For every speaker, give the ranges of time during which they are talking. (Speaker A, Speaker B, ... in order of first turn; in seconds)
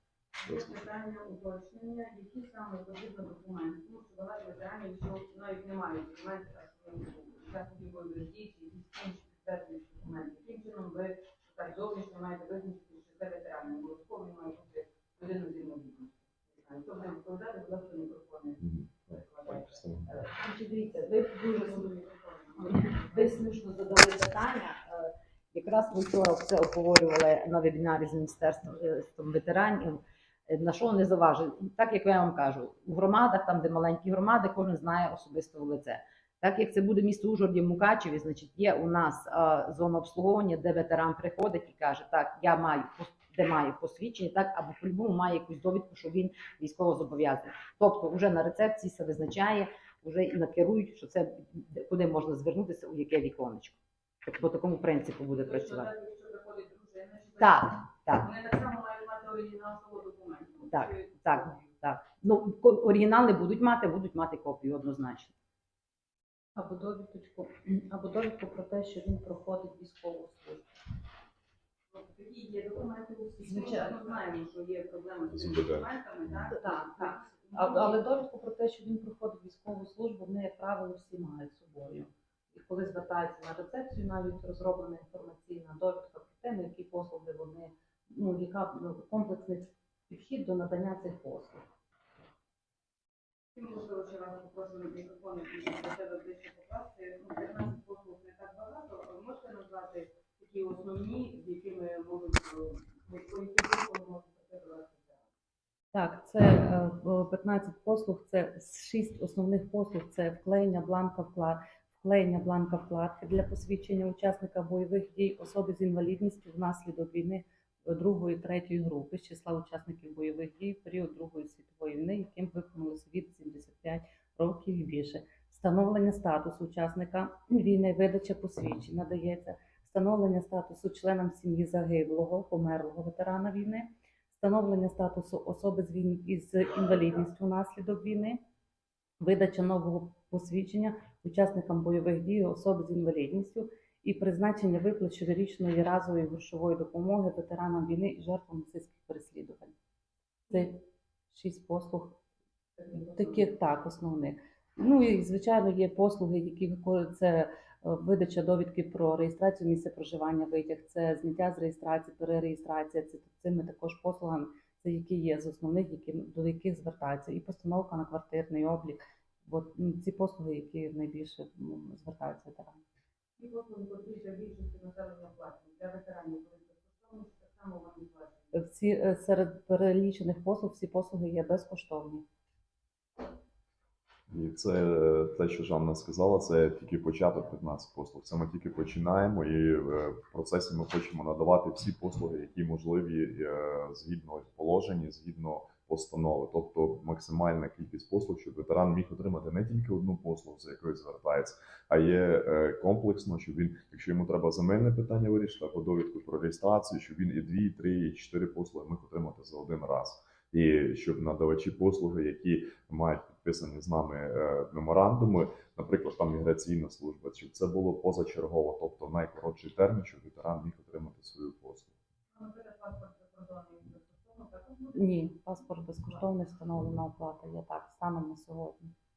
Speaker A: 0.4-19.8, 21.5-23.3, 55.3-61.6, 71.9-78.0, 93.5-105.2, 173.4-178.5, 222.3-225.0
Speaker B: 18.6-20.1, 75.3-76.4, 184.3-222.0
Speaker C: 20.1-21.9, 22.5-55.9, 57.4-58.3, 60.6-65.3
Speaker D: 66.5-70.8, 73.4-74.0, 76.5-91.6, 105.9-138.4, 139.2-149.7, 150.5-152.2, 153.0-172.8, 178.5-182.2, 224.9-228.9